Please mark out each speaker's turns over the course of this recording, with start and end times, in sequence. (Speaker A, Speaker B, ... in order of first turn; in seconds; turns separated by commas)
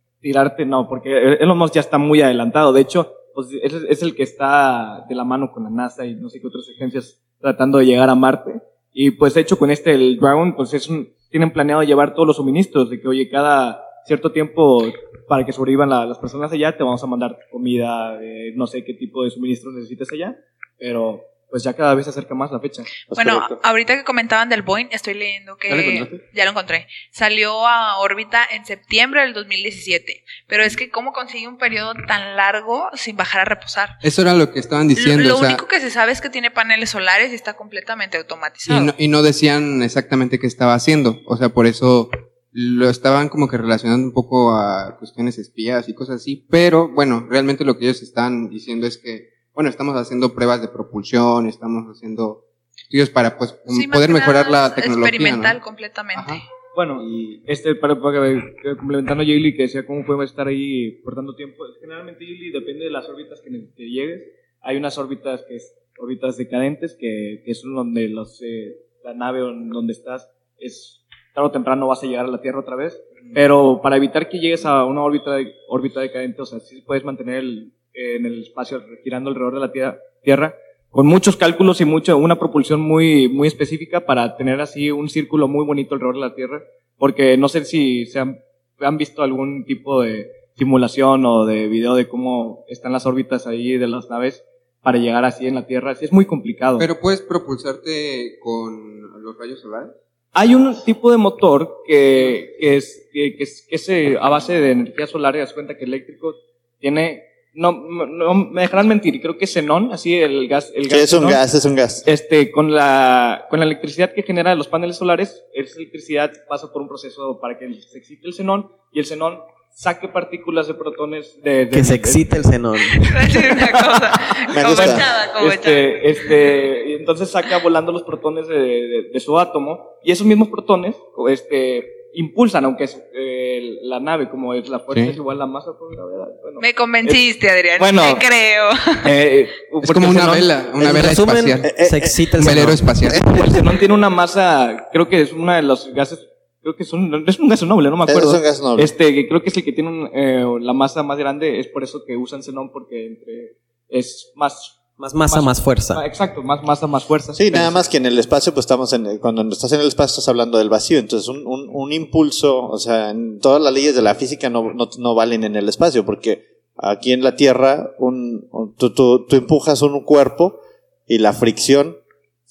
Speaker A: 0.2-22.9, Speaker B: 23.1-23.6, Speaker C: 23.1-33.9, Speaker D: 25.7-26.2, Speaker D: 34.0-35.6, Speaker C: 34.9-38.9, Speaker D: 38.6-55.6, Speaker C: 53.7-56.4, Speaker D: 56.1-56.4, Speaker A: 56.7-96.9, Speaker D: 57.0-57.4, Speaker D: 96.8-99.9, Speaker A: 100.3-111.4, Speaker B: 110.9-112.0, Speaker A: 112.0-122.4, Speaker E: 121.7-123.6, Speaker C: 122.9-126.3, Speaker B: 124.5-125.1, Speaker A: 124.7-137.2, Speaker D: 134.9-135.2, Speaker C: 136.6-139.1, Speaker A: 137.8-138.2, Speaker A: 139.0-140.5, Speaker D: 139.8-141.7, Speaker E: 140.8-143.7, Speaker B: 141.6-142.3, Speaker D: 142.4-143.2, Speaker A: 143.1-157.8, Speaker B: 148.1-148.9, Speaker E: 155.0-156.0, Speaker B: 157.3-172.0